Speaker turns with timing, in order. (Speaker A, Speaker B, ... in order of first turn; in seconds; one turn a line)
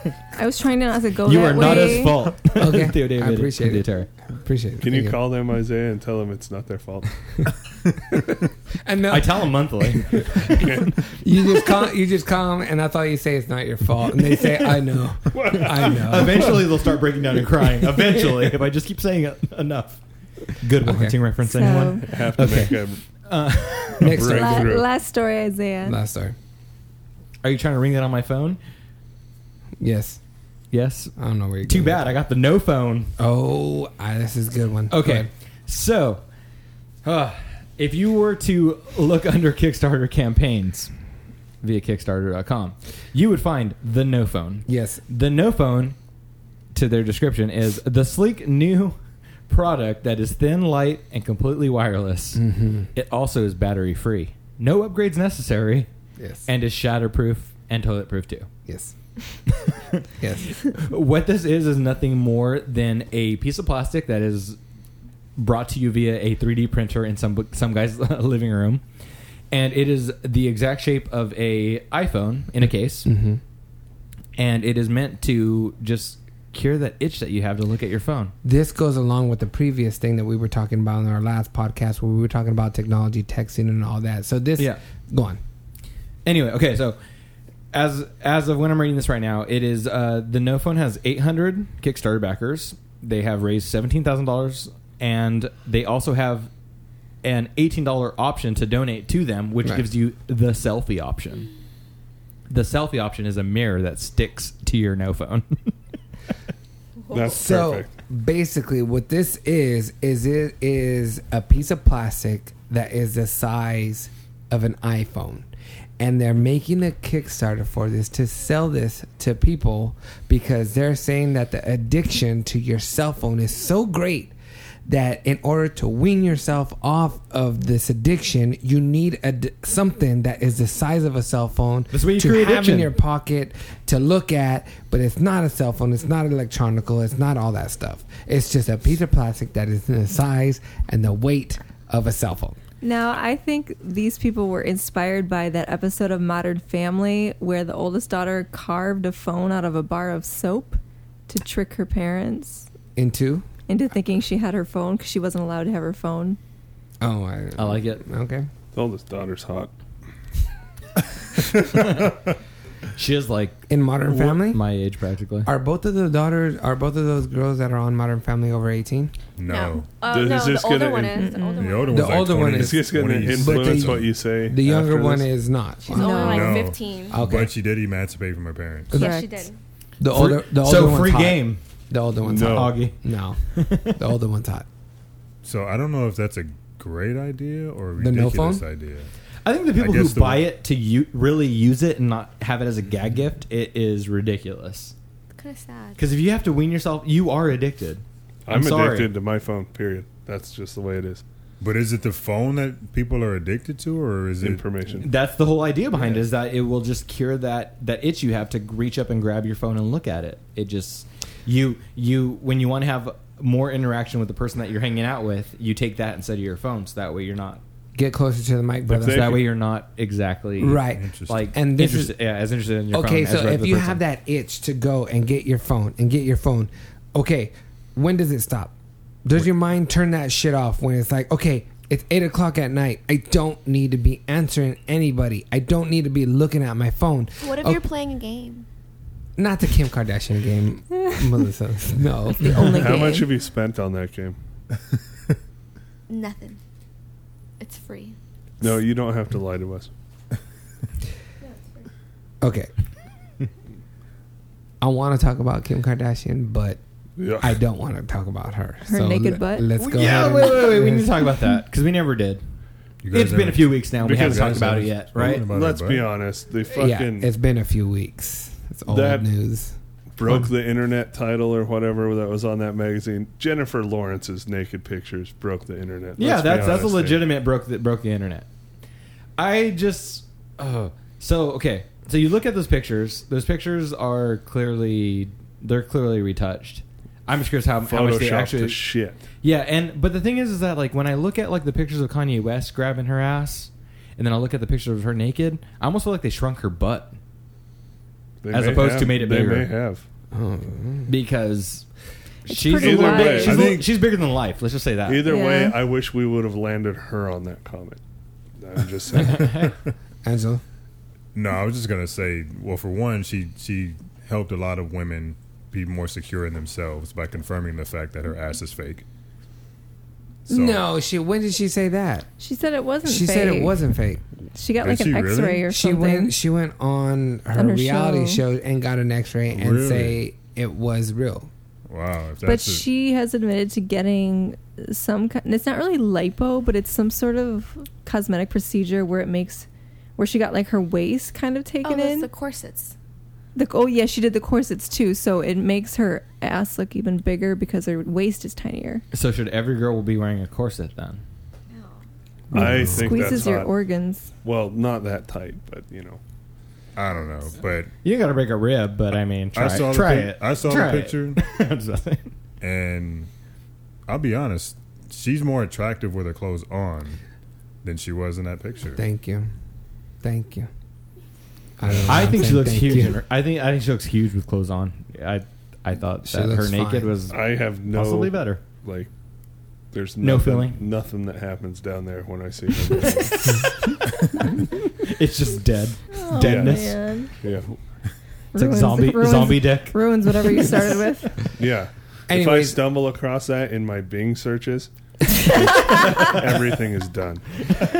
Speaker A: 0.3-2.4
Speaker B: 1.2-4.1
Speaker C: 1.6-5.2
Speaker D: 4.8-7.1
Speaker C: 8.1-16.7
Speaker B: 9.1-10.6
Speaker D: 10.6-10.8
Speaker D: 15.3-16.1
Speaker B: 15.7-20.0
Speaker B: 20.5-24.3
Speaker C: 20.8-21.2
Speaker A: 21.4-22.2
Speaker D: 22.0-23.0
Speaker C: 24.0-24.8
Speaker D: 24.0-24.9
Speaker A: 24.2-26.0
Speaker C: 25.8-26.4
Speaker B: 27.4-28.6
Speaker C: 29.8-30.2
Speaker B: 30.7-31.1
Speaker C: 31.2-32.0
Speaker B: 31.6-33.1
Speaker C: 33.2-35.3
Speaker B: 34.9-36.2
Speaker B: 37.0-40.9
Speaker B: 41.6-46.0
Speaker C: 44.7-45.0
Speaker B: 46.7-49.0
Speaker B: 49.5-55.9
Speaker C: 52.3-52.9
Speaker C: 56.2-56.5
Speaker B: 56.5-58.5
Speaker C: 58.7-58.9
Speaker C: 60.2-60.5
Speaker B: 60.7-64.6
Speaker B: 65.4-68.8
Speaker B: 69.5-73.1
Speaker C: 73.0-73.4
Speaker B: 74.4-78.3
Speaker C: 78.4-85.4
Speaker B: 86.2-87.0
Speaker B: 87.7-96.5
Speaker B: 97.2-101.5
Speaker B: 102.5-105.7
Speaker D: 107.1-107.9
Speaker C: 107.2-115.5
Speaker C: 116.0-124.3
Speaker C: 124.8-142.6
Speaker B: 131.9-132.9
Speaker A: 142.8-152.7
Speaker C: 152.9-153.5
Speaker A: 153.7-156.4
Speaker C: 157.0-158.5
Speaker B: 157.6-158.0
Speaker D: 158.7-159.7
Speaker B: 161.7-162.1
Speaker B: 162.9-165.5
Speaker C: 163.7-164.6
Speaker C: 165.4-169.1
Speaker E: 169.4-169.9
Speaker F: 169.5-172.1
Speaker D: 170.1-171.3
Speaker A: 171.1-171.8
Speaker E: 171.6-174.2
Speaker C: 171.9-176.4
Speaker D: 172.4-175.3
Speaker F: 175.9-177.2
Speaker A: 175.9-176.5
Speaker E: 176.2-179.0
Speaker C: 177.1-177.5
Speaker A: 178.9-179.4
Speaker F: 178.9-179.6
Speaker C: 180.0-184.7
Speaker B: 180.1-181.6
Speaker D: 182.2-182.8
Speaker B: 182.3-184.0
Speaker E: 185.4-189.1
Speaker C: 188.0-188.6
Speaker B: 189.4-194.9
Speaker E: 189.8-190.4
Speaker F: 195.3-196.0
Speaker B: 196.0-199.1
Speaker D: 198.5-201.2
Speaker E: 201.6-204.6
Speaker D: 204.4-205.1
Speaker B: 205.0-217.6
Speaker C: 217.9-219.4
Speaker D: 218.9-219.4
Speaker B: 219.0-224.0
Speaker C: 220.6-222.2
Speaker E: 220.9-221.4
Speaker C: 222.9-228.7
Speaker C: 229.2-237.8
Speaker F: 237.4-238.7
Speaker C: 239.4-243.1
Speaker A: 242.4-243.3
Speaker D: 242.6-244.4
Speaker F: 246.1-246.6
Speaker F: 247.6-248.2
Speaker D: 248.6-249.9
Speaker F: 251.4-251.8
Speaker C: 252.4-252.7
Speaker C: 254.8-256.8
Speaker D: 257.2-257.6
Speaker C: 257.4-261.2
Speaker A: 258.9-259.7
Speaker B: 259.8-262.4
Speaker E: 263.0-266.1
Speaker B: 263.1-265.4
Speaker D: 264.0-267.3
Speaker C: 266.7-269.7
Speaker D: 268.9-269.3
Speaker D: 270.2-277.2
Speaker B: 276.2-278.4
Speaker B: 279.4-288.8
Speaker D: 287.8-289.2
Speaker B: 289.4-297.1
Speaker D: 298.4-300.0
Speaker B: 298.5-299.7
Speaker C: 300.3-301.1
Speaker B: 301.1-301.9
Speaker B: 302.4-305.3
Speaker A: 302.5-303.7
Speaker D: 302.7-303.8
Speaker E: 303.4-303.9
Speaker D: 305.1-308.0
Speaker A: 305.2-305.8
Speaker D: 308.6-309.5
Speaker B: 309.2-309.7
Speaker C: 310.2-310.6
Speaker E: 311.3-319.0
Speaker E: 320.5-320.8
Speaker C: 320.5-322.3
Speaker A: 322.4-323.9
Speaker C: 323.0-324.2
Speaker A: 324.5-326.4
Speaker E: 324.8-325.7
Speaker C: 325.6-331.5
Speaker A: 327.5-328.4
Speaker E: 329.5-330.2
Speaker E: 331.9-332.9
Speaker A: 332.4-342.3
Speaker F: 341.8-342.9
Speaker A: 343.5-349.0
Speaker B: 349.1-351.2
Speaker D: 352.5-353.7
Speaker C: 352.5-353.4
Speaker A: 353.0-354.3
Speaker D: 354.4-356.2
Speaker E: 356.9-357.9
Speaker B: 358.0-362.3
Speaker E: 359.5-361.4
Speaker E: 362.6-363.3
Speaker E: 364.1-367.2
Speaker E: 367.8-369.0
Speaker C: 368.9-369.5
Speaker C: 370.2-370.7
Speaker C: 371.8-373.2
Speaker B: 372.1-378.6
Speaker C: 376.2-377.2
Speaker D: 377.3-379.1
Speaker D: 379.9-383.7
Speaker B: 380.2-380.8
Speaker B: 385.0-387.0
Speaker A: 386.1-387.3
Speaker D: 386.3-387.8
Speaker A: 388.5-391.4
Speaker B: 388.5-390.0
Speaker D: 391.6-394.9
Speaker C: 392.3-392.8
Speaker D: 395.4-397.6
Speaker A: 395.6-396.3